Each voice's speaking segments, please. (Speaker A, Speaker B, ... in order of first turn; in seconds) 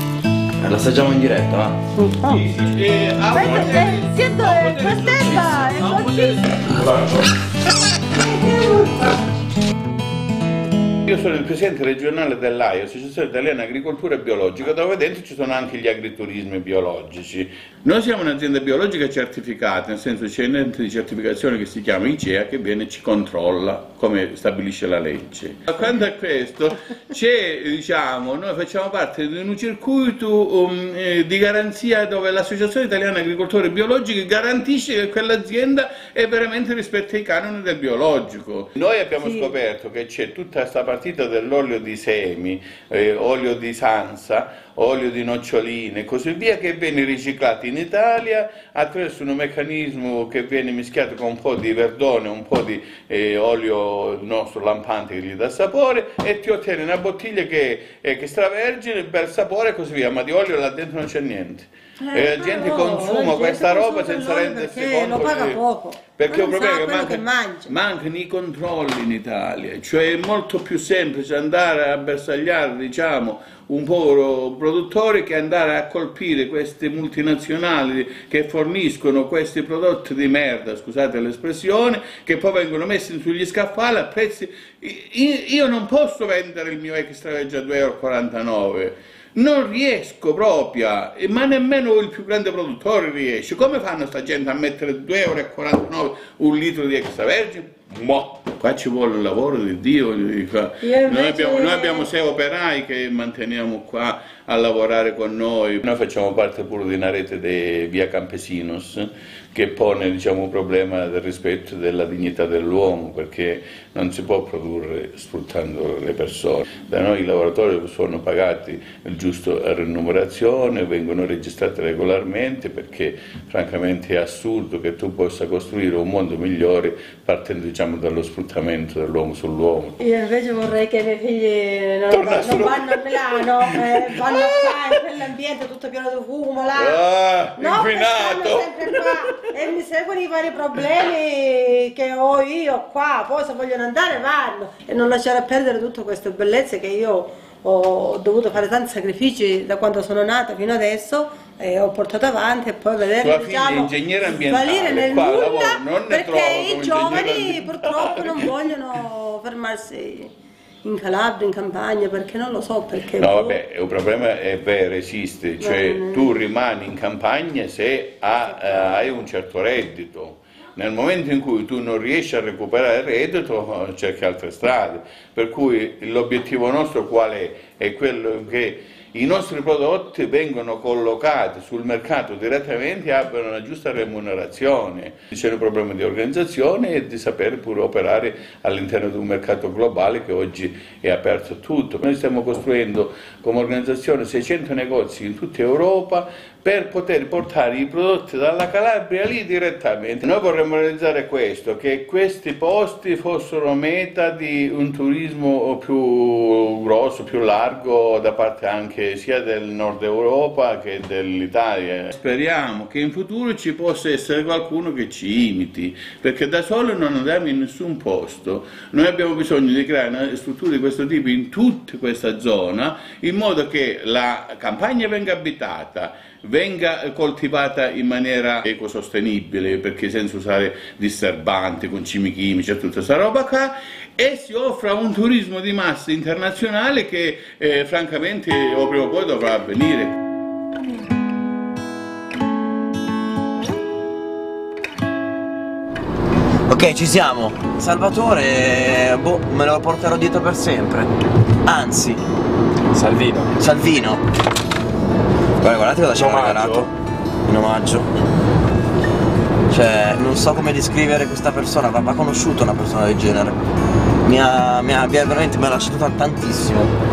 Speaker A: 0.6-1.8, 246.7-251.1, 251.7-252.2, 253.5-254.2, 255.6-256.9, 257.4-258.1, 259.7-263.6, 264.2-266.9
Speaker B: 2.0-2.4, 3.3-6.6, 8.3-8.9, 39.2-39.5, 62.0-67.7, 100.8-102.1, 130.0-137.0, 137.5-160.3, 160.8-163.6, 165.6-166.3
Speaker C: 2.2-7.0, 11.1-130.0, 132.1-135.0, 136.7-139.5, 153.2-158.8, 163.2-240.2